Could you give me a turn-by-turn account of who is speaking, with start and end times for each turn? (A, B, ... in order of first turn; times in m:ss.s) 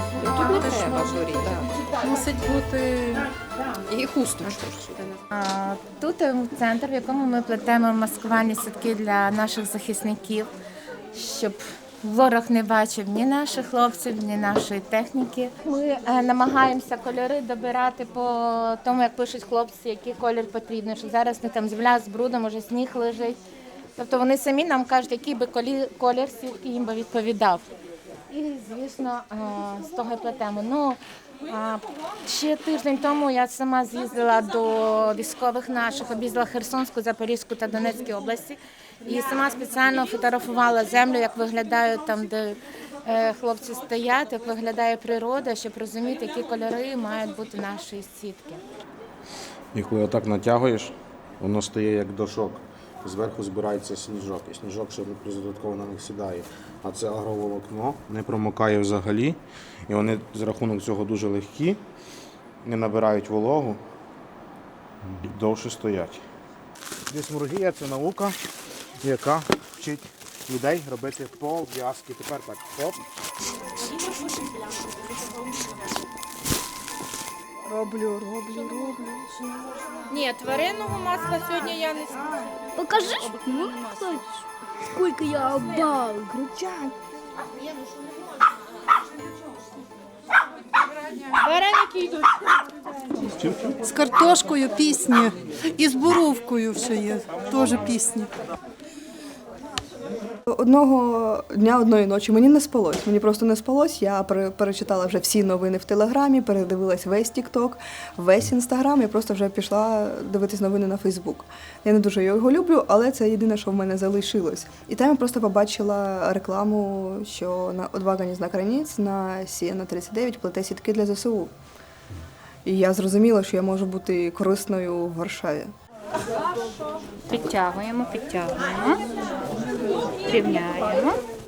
0:00.2-0:01.6 A
0:00.5-0:00.9 B
0:00.6-0:01.1 C
0:02.0-0:03.2 C
0:03.9-0:05.1 A
0:05.3-0:10.5 D
0:11.1-0:23.4 D
0:24.0-0:27.7 D
0:28.3-0:48.6 D
0:49.7-1:01.8 E
1:02.6-1:03.8 E
1:05.0-1:06.2 E
1:07.1-1:08.4 E
1:09.0-1:13.0 E
1:17.7-1:19.4 F
1:20.3-1:22.1 D
1:22.8-1:26.4 G
1:26.3-1:26.9 F
1:31.4-1:31.8 D
1:33.7-1:38.3 C
1:40.5-2:01.5 F
2:02.6-2:05.7 F
2:07.3-2:09.0 B
2:10.2-2:11.2 B